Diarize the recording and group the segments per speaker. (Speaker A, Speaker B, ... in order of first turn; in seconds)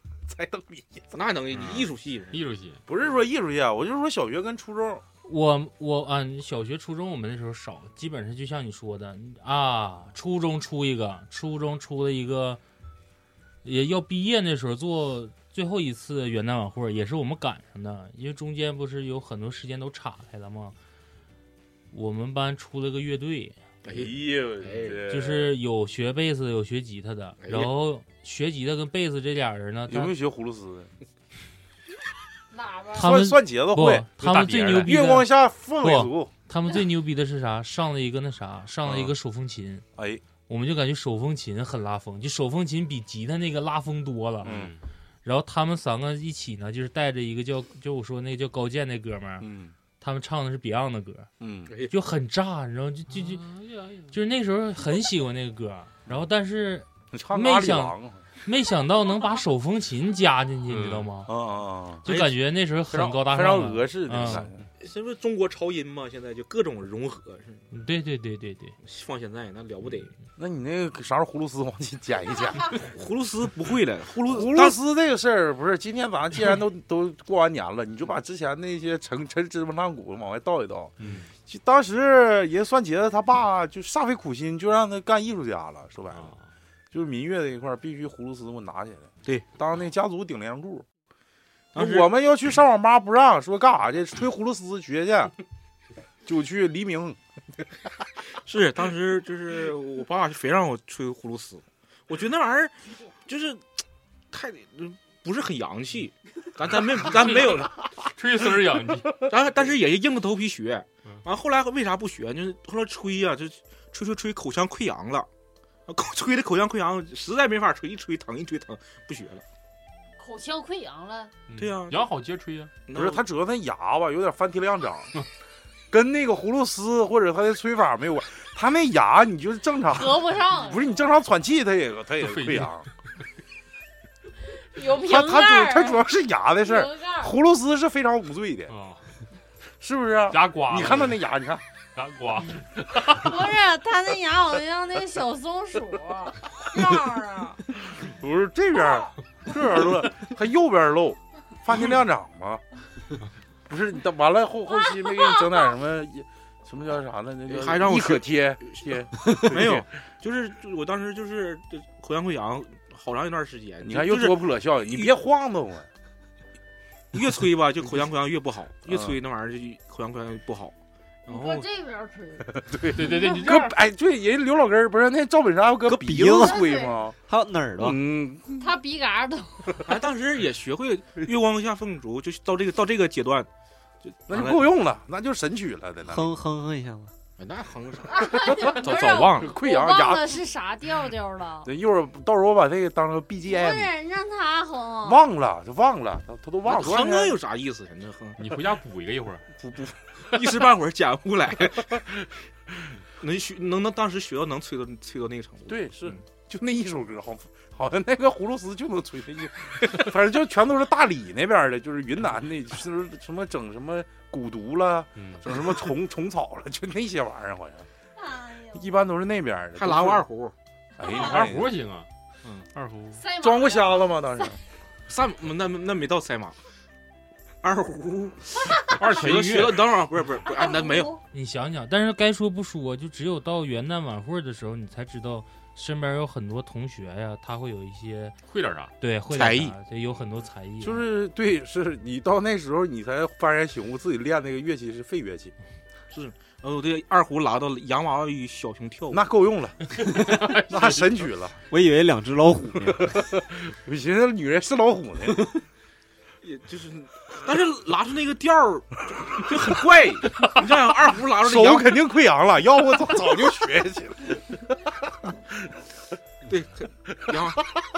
Speaker A: 0.3-1.2, 2.9-5.0, 23.9-25.5, 29.9-30.9, 33.0-36.3, 38.8-39.1, 39.9-40.2, 44.4-44.7, 49.4-49.7, 51.4-51.7, 57.1-58.2, 61.3-62.0, 62.9-64.7, 70.4-72.8, 74.2-86.3, 86.9-90.8, 91.7-95.3, 96.2-97.2, 122.9-125.1, 125.9-132.9, 134.9-138.7, 139.8-141.6, 147.8-152.6, 153.7-159.8, 163.8-165.9, 168.9-169.2, 172.6-177.2, 177.8-178.7, 184.3-186.3, 188.6-190.4, 191.6-193.9, 195.0-197.4, 199.6-199.9, 205.7-217.9, 218.7-220.2, 221.0-221.7, 223.3-224.6, 240.8-245.5, 249.1-251.6, 252.9-255.6, 261.3-265.5
Speaker B: 1.1-2.4, 23.8-25.1, 27.4-27.7, 51.7-51.9, 62.0-62.3, 64.8-67.7, 68.8-70.1, 72.7-74.8, 91.7-92.1, 98.5-103.7, 104.3-107.7, 109.3-115.3, 115.9-119.4, 121.5-122.1, 122.9-123.2, 157.5-165.1, 167.1-170.7, 171.3-171.7, 179.8-183.5, 184.0-184.7, 187.4-189.5, 196.6-198.4, 200.3-202.0, 203.2-206.2, 219.8-220.5, 225.1-226.6, 227.6-231.2, 239.3-239.8, 246.1-249.2, 256.4-262.0, 266.5-267.6
Speaker C: 1.6-2.8, 44.4-44.8, 53.2-54.1, 60.7-61.1, 81.0-81.3, 86.1-86.4, 108.1-109.2, 121.5-122.7, 132.2-132.7, 138.7-139.1, 140.3-141.2, 141.9-143.3, 172.9-173.7, 198.4-199.4, 215.2-215.4, 221.0-222.1, 222.7-223.2, 238.5-238.9, 250.1-251.1
Speaker D: 5.2-12.6, 13.6-20.8, 21.9-23.6, 25.1-30.1, 32.9-35.3, 35.8-39.8, 40.5-44.6, 45.2-49.5, 50.0-51.3, 51.9-53.5, 54.1-61.3, 62.0-64.5, 67.7-68.8, 231.3-238.4, 239.0-241.0
Speaker E: 32.5-33.1, 120.2-121.4, 129.9-131.0, 134.7-136.1, 136.6-137.3, 143.1-147.6, 154.8-155.4, 171.3-173.7, 176.3-177.0, 178.6-179.8, 188.1-191.7, 193.4-195.2, 218.2-218.9, 223.2-224.5, 230.5-231.1
Speaker F: 175.8-176.6, 177.3-178.0, 186.1-187.1, 251.7-253.2